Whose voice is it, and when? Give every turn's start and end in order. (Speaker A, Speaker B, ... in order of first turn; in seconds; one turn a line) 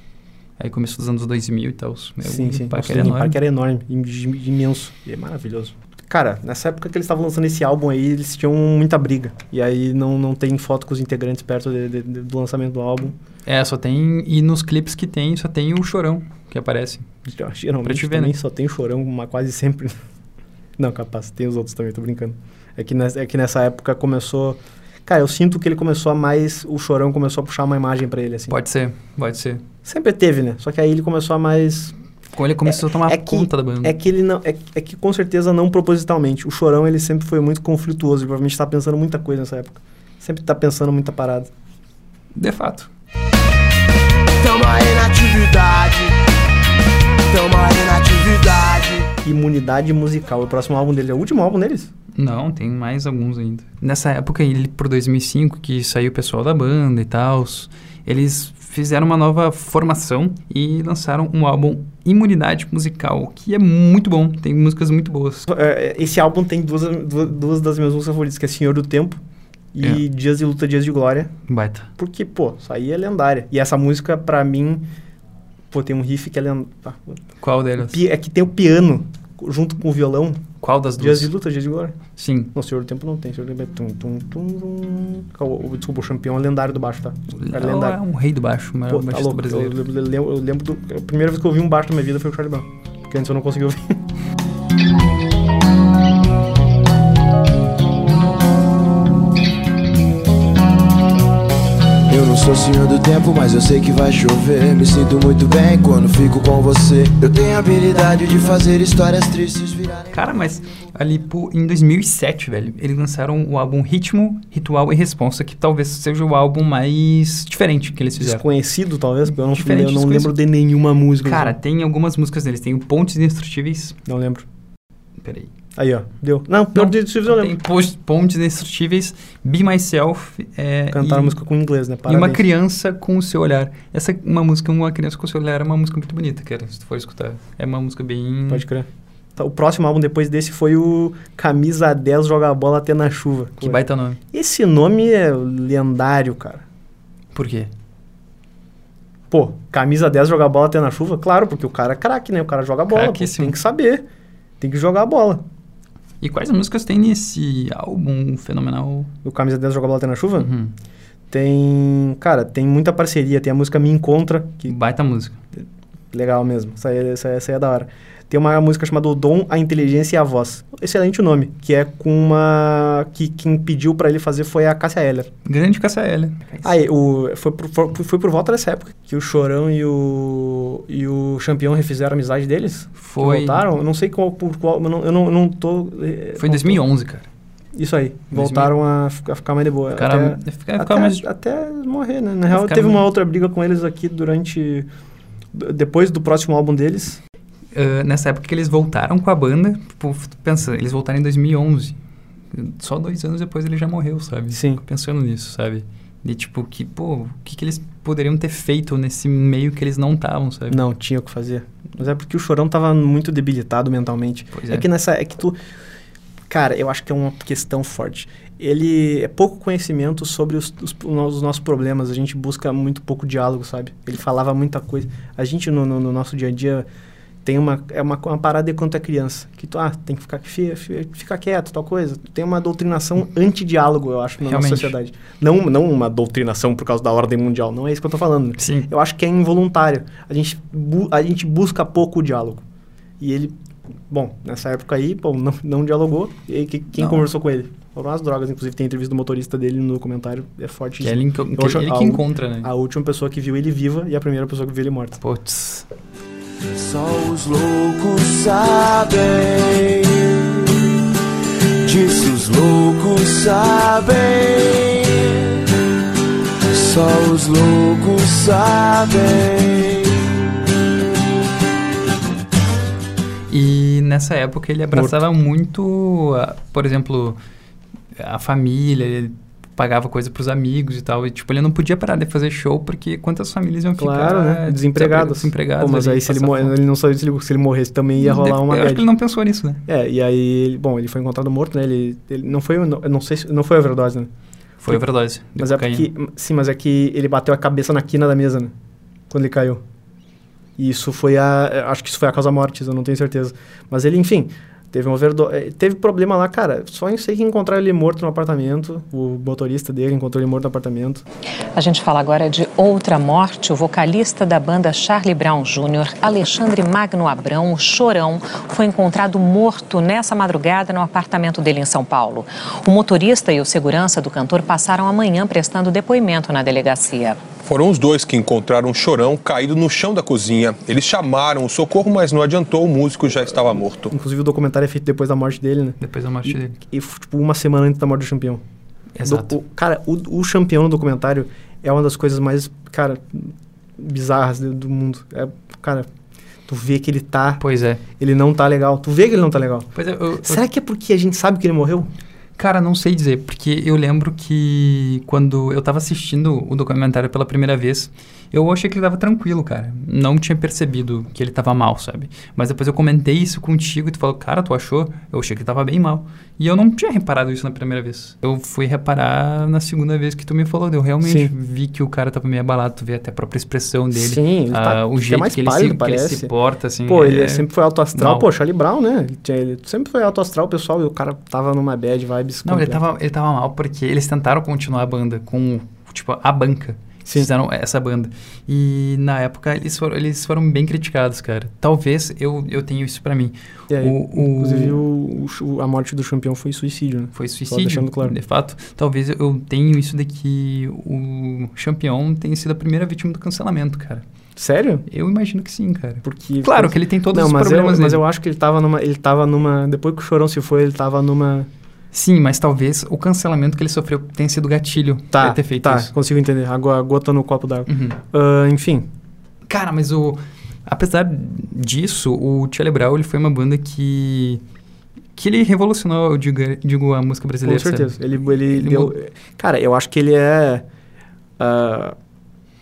Speaker A: 0.6-3.4
Speaker B: 2.2-13.2
Speaker A: 13.4-17.1
Speaker B: 17.3-20.0
Speaker A: 17.8-18.4
Speaker B: 20.8-28.5
Speaker A: 28.5-29.6
Speaker B: 29.9-31.9
Speaker A: 32.3-34.0
Speaker B: 32.6-41.5
Speaker A: 42.4-42.9
Speaker C: 44.4-46.2
Speaker C: 47.3-49.1
Speaker B: 49.2-51.9
Speaker A: 52.1-65.5
Speaker B: 65.5-69.2
Speaker B: 69.7-71.3
Speaker A: 71.5-71.9
Speaker B: 72.0-74.9
Speaker B: 75.7-77.2
Speaker A: 77.4-78.0
Speaker B: 77.8-80.5
Speaker A: 80.6-81.3
Speaker B: 81.0-82.0
Speaker A: 82.2-82.5
Speaker B: 82.5-88.0
Speaker A: 87.3-89.8
Speaker B: 88.9-94.0
Speaker C: 102.1-110.1
Speaker A: 110.1-118.4
Speaker B: 118.2-121.6
Speaker A: 119.4-120.4
Speaker A: 121.2-124.0
Speaker B: 124.1-124.5
Speaker A: 125.2-125.5
Speaker B: 125.8-127.6
Speaker A: 126.7-131.4
Speaker B: 130.9-132.4
Speaker A: 132.1-138.6
Speaker B: 138.5-143.8
Speaker A: 143.6-144.2
Speaker B: 144.3-146.6
Speaker A: 147.3-147.7
Speaker B: 149.3-154.1
Speaker A: 152.9-153.6
Speaker B: 154.6-155.4
Speaker A: 156.2-159.1
Speaker B: 159.2-160.5
Speaker A: 160.4-160.7
Speaker B: 161.3-164.8
Speaker A: 164.7-165.4
Speaker B: 166.1-175.3
Speaker A: 175.4-176.7
Speaker B: 176.6-186.8
Speaker A: 182.9-183.7
Speaker A: 186.4-187.3
Speaker B: 187.8-194.9
Speaker A: 188.3-188.7
Speaker A: 189.9-191.2
Speaker A: 192.5-193.1
Speaker B: 195.5-197.2
Speaker A: 197.7-202.0
Speaker A: 202.5-210.8
Speaker B: 204.5-204.8
Speaker B: 210.7-215.6
Speaker A: 214.5-214.9
Speaker B: 216.5-226.9
Speaker B: 227.4-242.6
Speaker A: 234.4-234.9
Speaker A: 238.6-238.9
Speaker B: 243.2-243.6
Speaker B: 244.1-255.2
Speaker A: 247.0-247.3
Speaker A: 251.0-252.7
Speaker A: 255.2-255.9
Speaker C: 256.8-260.6
Speaker C: 261.8-265.6
Speaker C: 266.7-270.2
Speaker A: 273.5-277.4
Speaker B: 274.9-275.2
Speaker A: 278.1-286.8
Speaker B: 284.0-289.1
Speaker A: 288.2-289.8
Speaker B: 289.9-294.3
Speaker A: 294.8-296.1
Speaker B: 295.6-298.7
Speaker B: 299.3-299.8
Speaker B: 300.8-311.2
Speaker D: 311.8-327.4
Speaker E: 327.6-334.1
Speaker B: 334.1-338.6
Speaker A: 336.0-336.8
Speaker A: 339.1-339.6
Speaker B: 339.2-346.1
Speaker B: 346.7-347.6
Speaker A: 347.6-348.0
Speaker B: 348.1-352.1
Speaker A: 349.9-350.6
Speaker A: 352.6-378.5
Speaker B: 371.2-371.5
Speaker B: 374.1-376.5
Speaker B: 377.0-383.0
Speaker A: 382.6-395.0
Speaker B: 393.9-398.4
Speaker A: 397.3-404.2
Speaker B: 404.6-405.0
Speaker A: 405.1-408.2
Speaker B: 406.2-411.7
Speaker A: 412.1-416.1
Speaker B: 415.3-419.1
Speaker A: 417.9-418.2
Speaker A: 419.7-424.6
Speaker A: 425.4-429.1
Speaker B: 427.6-430.9
Speaker B: 431.6-432.1